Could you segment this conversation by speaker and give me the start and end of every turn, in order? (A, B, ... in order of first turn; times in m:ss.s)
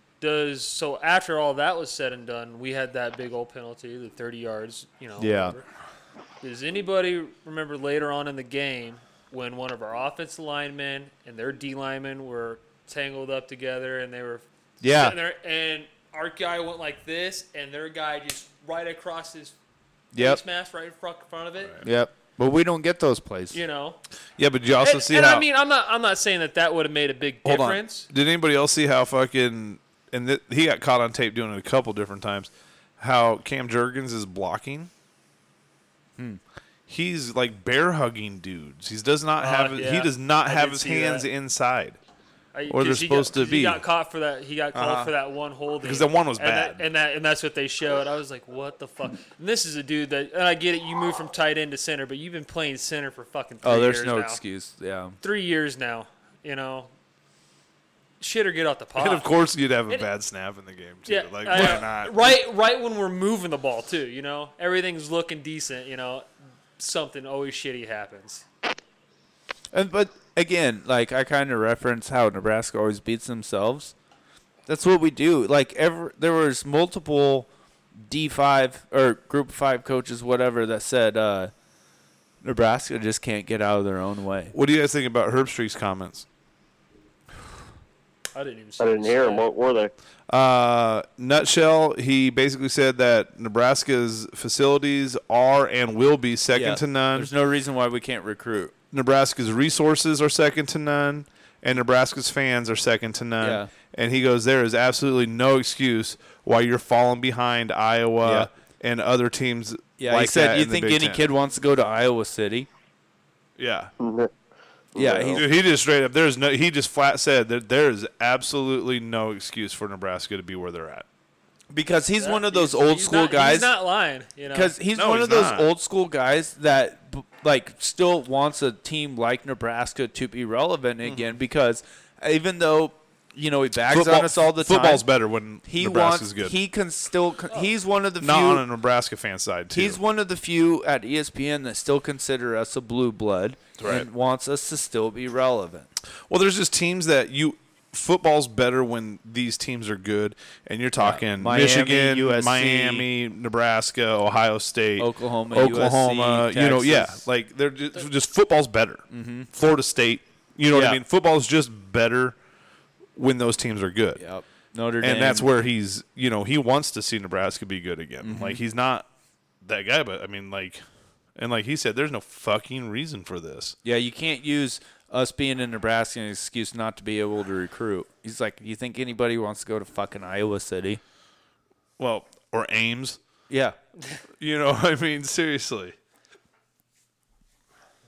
0:00.2-0:05.6 A
0:05.2-0:05.6 B
0:06.4-0:19.6 A
0:14.8-0:15.2 B
0:20.1-0:20.4 B
0:20.2-0:21.8 A
0:21.8-0:23.6 B
0:23.5-0:24.0 A
0:24.4-0:25.4 C
0:24.8-0:28.1 A
0:27.4-0:34.9 C
0:36.9-0:42.0 C
0:39.4-0:41.3 A
0:42.5-0:54.4 A
0:42.7-0:43.8 C
0:44.7-0:45.1 B
0:45.8-0:46.8 C
0:53.6-0:55.2 B
0:55.2-0:56.9 A
0:58.2-0:59.3 A
0:59.0-1:02.4 C
1:01.0-1:08.4 A
1:01.5-1:01.9 B
1:09.7-1:13.9 B
1:14.7-1:21.5 B
1:22.4-1:24.5 B
1:24.5-1:26.2 C
1:28.3-1:29.5 A
1:28.8-1:29.9 D
1:30.3-1:37.3 C
1:36.5-1:38.7 B
1:38.9-1:51.2 C
1:43.4-1:43.7 B
1:48.2-1:48.5 B
1:50.0-1:52.7 B
1:53.6-1:53.9 C
1:54.0-1:54.3 D
1:54.9-1:55.4 D
1:54.9-1:55.4 B
1:55.3-2:01.0 C
2:01.7-2:03.7 B
2:02.2-2:04.7 A
2:04.5-2:15.0 B
2:04.9-2:05.7 C
2:11.0-2:11.3 C
2:13.9-2:16.5 C
2:15.6-2:18.6 B
2:18.2-2:20.0 C
2:19.7-2:25.9 B
2:23.8-2:24.1 C
2:26.3-2:42.4 C
2:31.0-2:33.1 B
2:35.0-2:37.2 B
2:39.1-2:39.5 B
2:40.7-2:41.0 B
2:43.2-2:44.2 C
2:44.2-2:45.5 B
2:45.0-2:49.0 C
2:48.2-2:48.6 B
2:49.6-2:50.8 C
2:51.4-2:53.8 C
2:53.8-3:01.0 B
3:02.0-3:03.2 C
3:03.5-3:03.8 B
3:04.4-3:06.0 C